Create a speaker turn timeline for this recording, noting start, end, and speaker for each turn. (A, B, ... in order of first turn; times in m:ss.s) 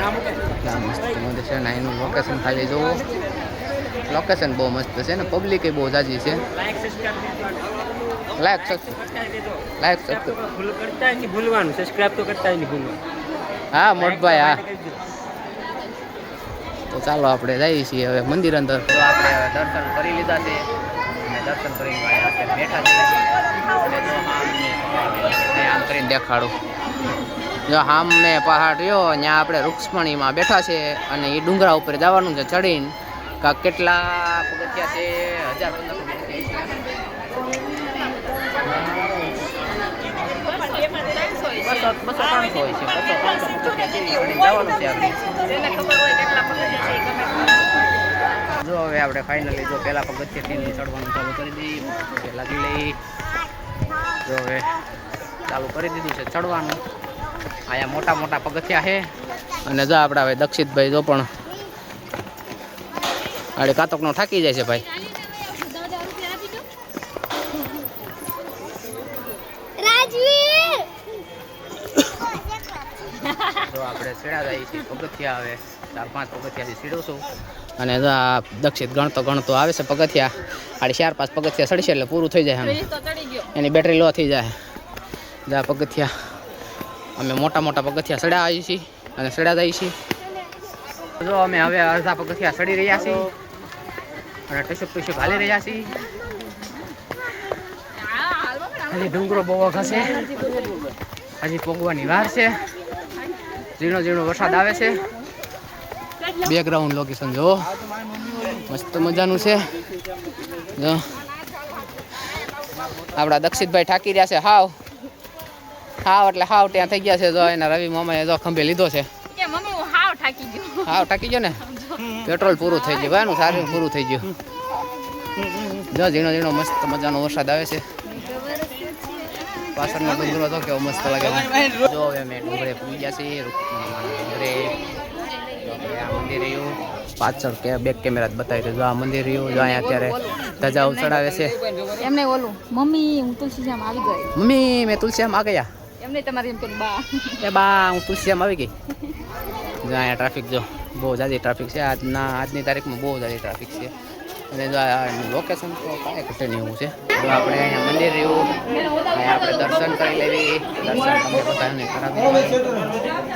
0:00.6-0:03.0 A
0:04.1-0:06.5 A
0:08.4-0:09.0 A
0:09.8-0:10.4 A
0:10.6-0:13.0 B
0:13.7-0:14.7 A
0:16.9-0:20.7 A
0:21.2-0:26.5 A
0:27.7-0:36.8 A
0:41.5-0:45.4 A
0:45.5-0:47.6 C
0:48.5-0:53.0 A
0:54.2-0:54.7 A
0:55.5-0:56.8 A
0:57.7-0:59.1 A
0:59.6-1:01.3 A
1:03.6-1:04.9 A
1:05.8-1:06.6 C
1:09.8-1:10.9 C
1:13.5-1:17.3 A
1:17.8-1:22.8 A
1:22.6-1:23.5 C
1:23.5-1:24.6 A
1:25.5-1:26.1 A
1:27.2-1:30.0 A
1:31.2-1:33.3 A
1:34.5-1:35.9 A
1:37.9-1:40.9 C
1:38.9-1:40.3 A
1:41.4-1:42.6 A
1:43.8-1:45.1 A
1:46.4-1:47.7 A
1:48.4-1:49.7 A
1:50.8-1:51.2 A
1:53.0-1:54.8 A
1:56.0-1:59.1 A
1:59.3-2:01.1 C
2:00.8-2:04.3 A
2:01.6-2:02.2 C
2:05.8-2:07.8 A
2:08.1-2:09.5 C
2:09.7-2:14.8 A
2:15.5-2:21.6 A
2:19.7-2:24.3 C
2:24.3-2:25.7 A
2:26.0-2:27.4 C
2:27.4-2:28.7 A
2:29.8-2:34.0 A
2:34.5-2:38.6 A
2:39.1-2:42.7 A